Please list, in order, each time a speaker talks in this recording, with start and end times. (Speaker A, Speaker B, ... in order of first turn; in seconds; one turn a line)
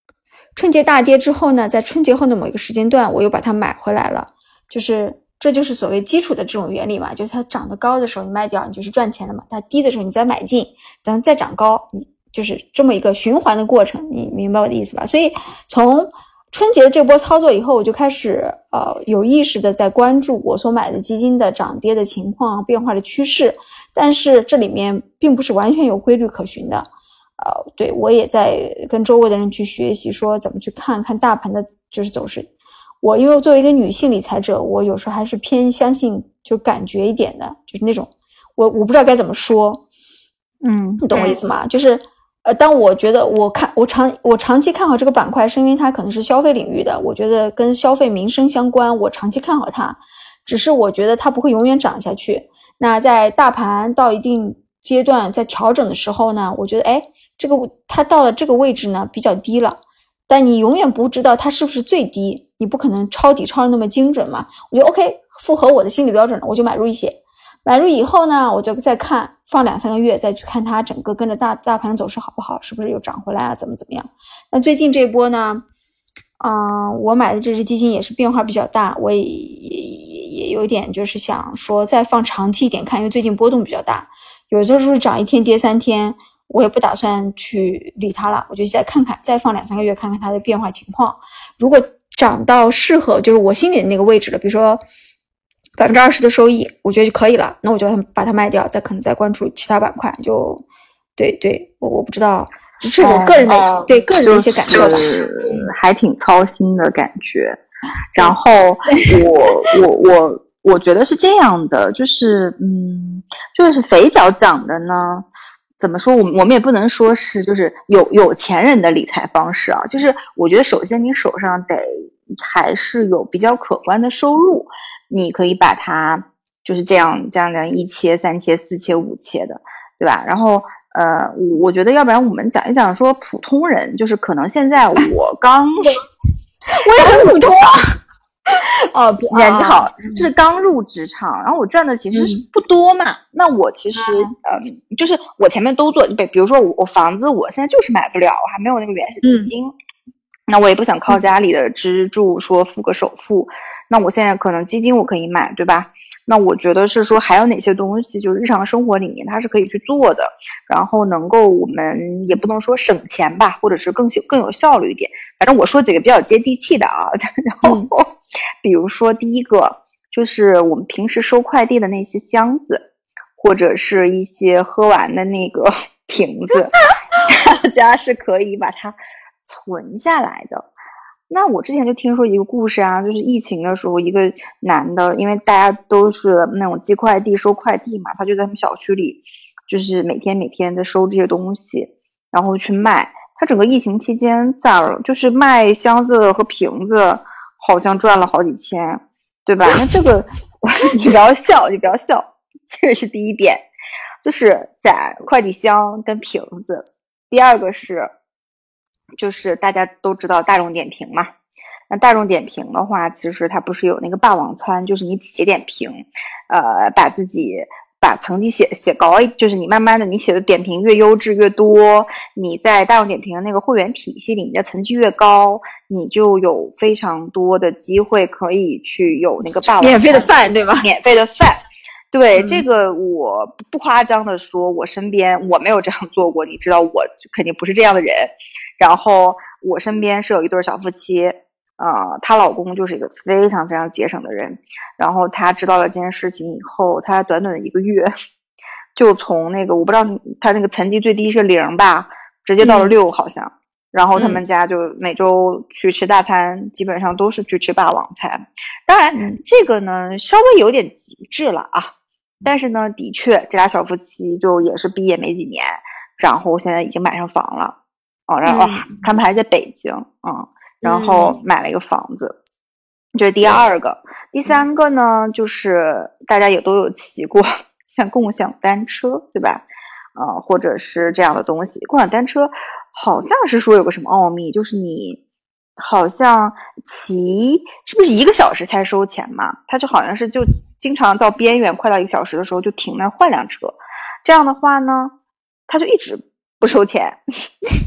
Speaker A: 0.6-32.5
Speaker A: 33.0-39.8
Speaker B: 40.6-41.4
Speaker A: 41.0-75.6
Speaker A: 76.4-94.8
Speaker A: 95.8-100.6
Speaker A: 101.2-105.7
Speaker B: 103.0-107.6
Speaker B: 108.2-115.3
Speaker A: 108.9-109.8
Speaker B: 115.8-136.0
Speaker A: 136.7-137.9
Speaker B: 137.0-137.3
Speaker A: 138.5-140.3
Speaker B: 139.3-149.7
Speaker A: 142.1-142.4
Speaker A: 143.9-144.3
Speaker A: 149.2-149.5
Speaker B: 150.5-168.1
Speaker A: 167.6-167.9
Speaker B: 168.6-172.8
Speaker B: 173.4-176.7
Speaker B: 177.3-180.7
Speaker B: 181.3-203.7
Speaker B: 204.2-208.1
Speaker B: 209.2-211.3
Speaker B: 211.9-231.6
Speaker A: 229.8-230.9
Speaker B: 232.1-248.1
Speaker A: 232.4-232.6
Speaker B: 248.9-261.9
Speaker A: 252.6-252.9
Speaker A: 254.2-254.4
Speaker A: 259.1-259.4
Speaker B: 262.4-267.8
Speaker B: 268.3-272.4
Speaker A: 268.5-269.1
Speaker A: 270.8-271.4
Speaker B: 273.1-285.2
Speaker B: 285.8-295.1
Speaker B: 295.7-297.2